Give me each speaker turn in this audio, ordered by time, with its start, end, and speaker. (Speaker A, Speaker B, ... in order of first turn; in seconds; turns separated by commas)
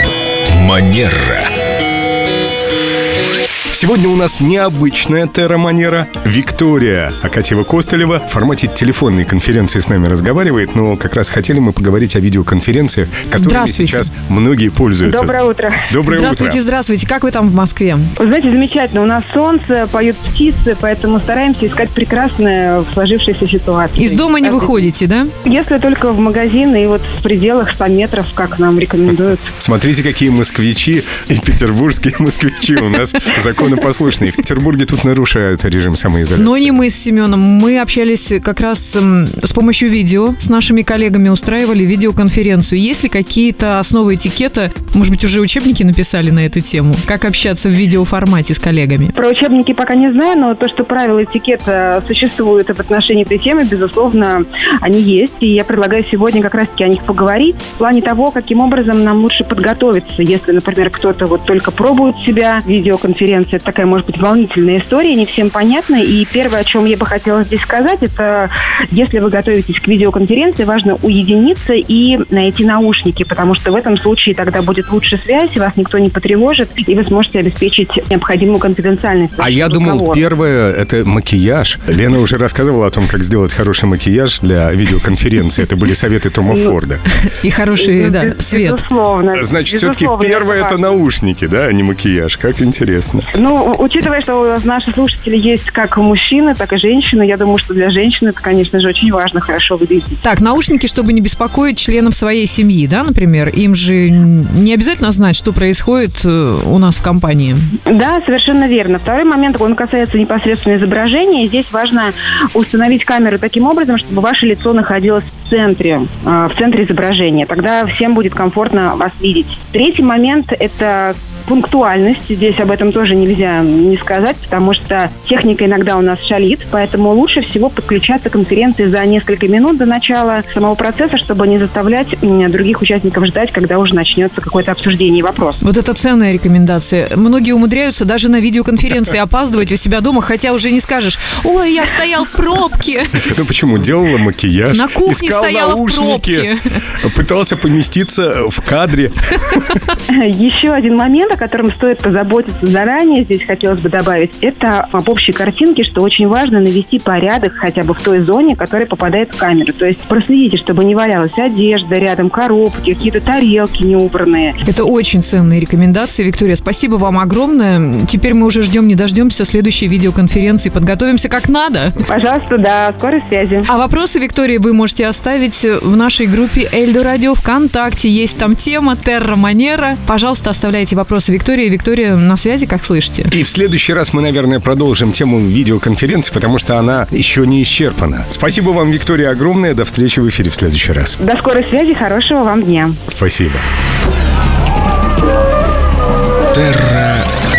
Speaker A: 0.5-1.5, Speaker A: 3.7-15.3, Speaker B: 13.3-14.1, Speaker C: 15.0-15.9, Speaker A: 15.9-16.6, Speaker B: 16.1-18.1, Speaker C: 18.2-24.9, Speaker B: 24.0-25.3, Speaker C: 25.4-29.5, Speaker A: 29.6-36.8, Speaker B: 36.4-49.1, Speaker C: 49.1-80.3, Speaker A: 79.4-87.0, Speaker C: 86.5-86.8, Speaker B: 87.2-88.8, Speaker C: 87.8-91.0, Speaker A: 89.3-93.3, Speaker C: 93.3-100.2, Speaker B: 100.2-107.7, Speaker C: 107.8-135.6, Speaker B: 135.6-143.3, Speaker A: 143.2-149.8, Speaker B: 144.7-146.6, Speaker C: 150.1-164.5, Speaker B: 164.6-171.9, Speaker C: 172.1-173.7, Speaker B: 173.7-183.3, Speaker A: 183.3-191.2, Speaker C: 191.2-193.0, Speaker A: 193.1-193.6, Speaker A: 196.5-197.3